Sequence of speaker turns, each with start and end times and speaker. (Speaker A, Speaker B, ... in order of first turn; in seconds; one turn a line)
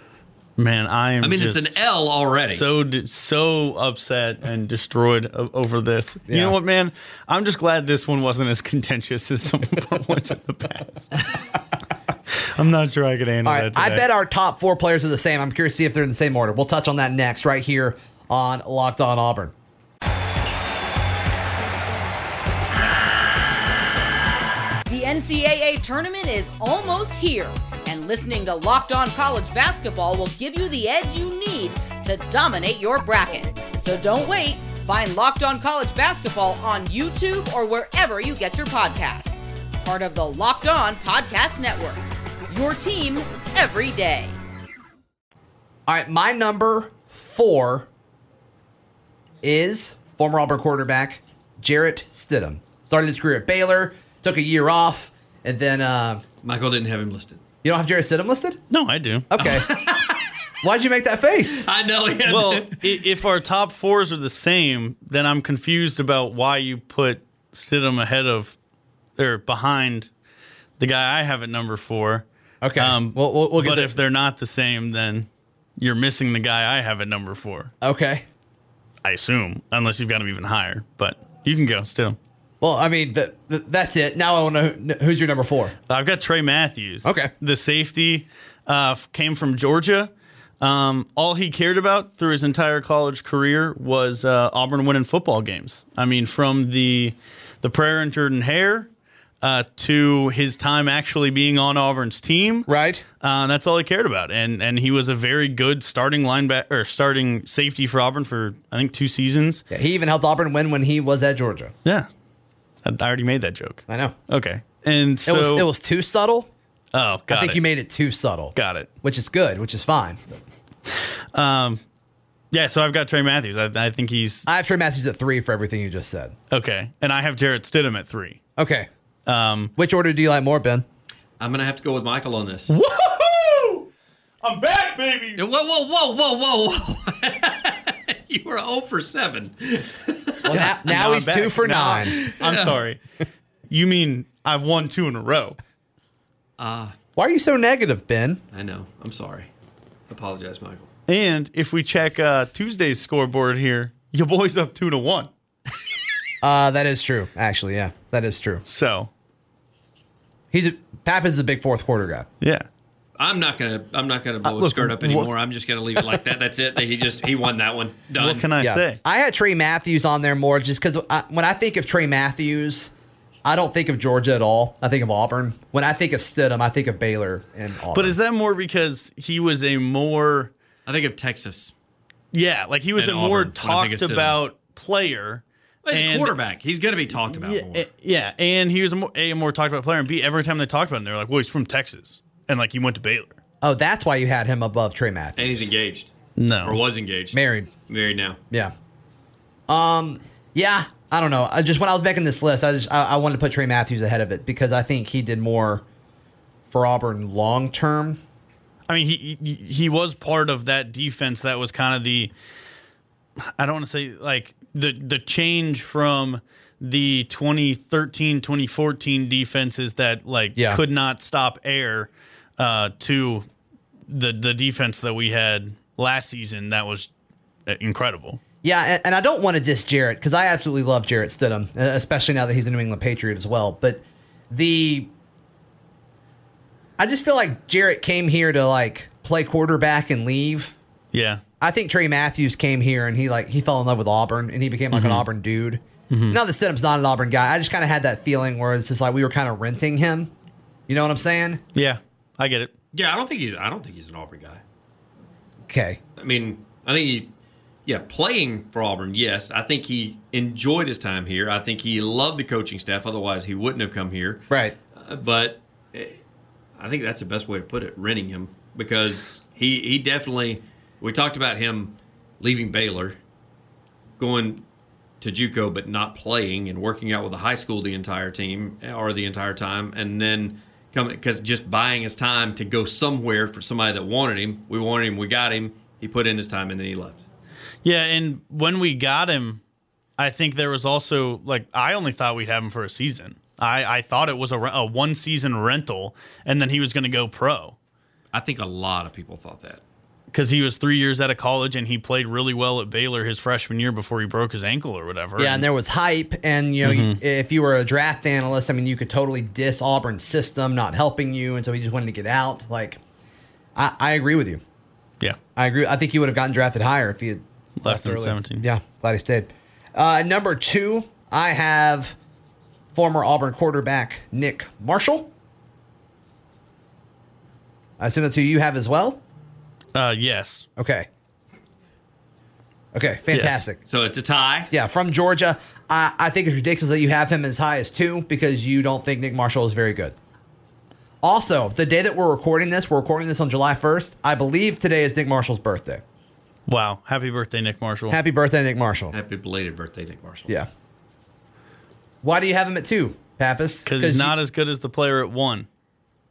Speaker A: 0.6-1.7
Speaker B: 1.2-2.7
Speaker A: 2.4-11.3
Speaker C: 6.3-6.6
Speaker A: 12.3-14.1
Speaker C: 13.4-19.5
Speaker D: 24.9-44.4
Speaker C: 45.9-47.9
Speaker C: 49.4-56.2
Speaker B: 56.4-57.4
Speaker C: 57.6-58.6
Speaker A: 58.7-59.3
Speaker C: 59.3-59.7
Speaker B: 59.4-60.3
Speaker C: 60.6-61.7
Speaker B: 61.5-63.0
Speaker A: 62.3-68.6
Speaker A: 69.2-70.1
Speaker A: 70.8-72.2
Speaker C: 72.6-74.0
Speaker A: 72.8-77.7
Speaker C: 77.8-78.2
Speaker A: 79.1-82.2
Speaker C: 82.6-85.8
Speaker A: 85.9-98.9
Speaker C: 87.0-87.3
Speaker A: 99.4-102.7
Speaker C: 102.7-103.0
Speaker A: 103.2-109.6
Speaker C: 109.7-111.7
Speaker A: 112.8-115.7
Speaker C: 113.9-114.2
Speaker C: 115.2-116.5
Speaker A: 116.9-117.6
Speaker C: 117.3-120.4
Speaker A: 118.5-118.9
Speaker A: 120.9-121.8
Speaker A: 122.5-124.5
Speaker C: 124.5-126.3
Speaker A: 126.5-128.4
Speaker C: 128.6-128.9
Speaker A: 129.3-129.7
Speaker C: 129.8-130.8
Speaker B: 131.4-132.8
Speaker A: 132.7-133.9
Speaker A: 134.4-135.4
Speaker B: 135.4-140.4
Speaker C: 140.5-142.2
Speaker A: 140.5-143.0
Speaker B: 142.2-142.8
Speaker A: 143.7-145.6
Speaker B: 146.6-146.9
Speaker C: 147.2-148.4
Speaker B: 148.5-149.5
Speaker B: 150.1-150.9
Speaker A: 151.1-155.3
Speaker C: 156.4-158.6
Speaker A: 158.7-159.1
Speaker C: 160.5-162.3
Speaker A: 162.4-162.7
Speaker B: 163.2-168.5
Speaker A: 164.4-165.3
Speaker A: 168.2-169.0
Speaker C: 168.6-172.9
Speaker C: 173.4-178.2
Speaker A: 177.9-180.5
Speaker B: 180.9-181.7
Speaker A: 182.3-186.3
Speaker B: 183.0-184.4
Speaker B: 185.8-187.9
Speaker A: 187.3-193.4
Speaker C: 193.6-195.7
Speaker B: 195.4-198.4
Speaker A: 196.4-196.8
Speaker C: 197.3-197.7
Speaker C: 199.7-205.8
Speaker C: 206.7-208.2
Speaker A: 208.9-212.3
Speaker A: 213.6-223.5
Speaker C: 220.6-220.8
Speaker A: 224.1-227.1
Speaker A: 227.7-228.4
Speaker C: 228.6-235.1
Speaker C: 237.0-240.8
Speaker A: 241.1-241.4
Speaker C: 241.6-250.3
Speaker A: 244.9-245.3
Speaker A: 246.1-246.4
Speaker C: 250.9-251.6
Speaker A: 251.8-252.7
Speaker B: 252.9-254.6
Speaker C: 255.7-256.0
Speaker B: 256.2-257.3
Speaker B: 257.9-266.2
Speaker C: 264.5-264.8
Speaker B: 266.8-273.2
Speaker B: 274.2-274.6
Speaker B: 275.2-287.2
Speaker A: 287.8-289.6
Speaker A: 290.2-297.8
Speaker B: 298.3-299.8
Speaker A: 300.3-305.6
Speaker C: 305.4-313.0
Speaker A: 306.8-307.2
Speaker C: 313.8-314.6
Speaker C: 315.6-322.1
Speaker A: 317.8-318.7
Speaker C: 322.9-325.3
Speaker C: 328.0-329.2
Speaker A: 329.9-330.7
Speaker C: 330.8-331.1
Speaker C: 332.9-333.8
Speaker A: 333.3-333.6
Speaker B: 333.8-334.7
Speaker C: 334.7-340.1
Speaker C: 341.2-346.0
Speaker A: 346.7-348.2
Speaker C: 348.1-349.2
Speaker B: 349.1-350.6
Speaker C: 352.2-354.3
Speaker A: 353.9-355.7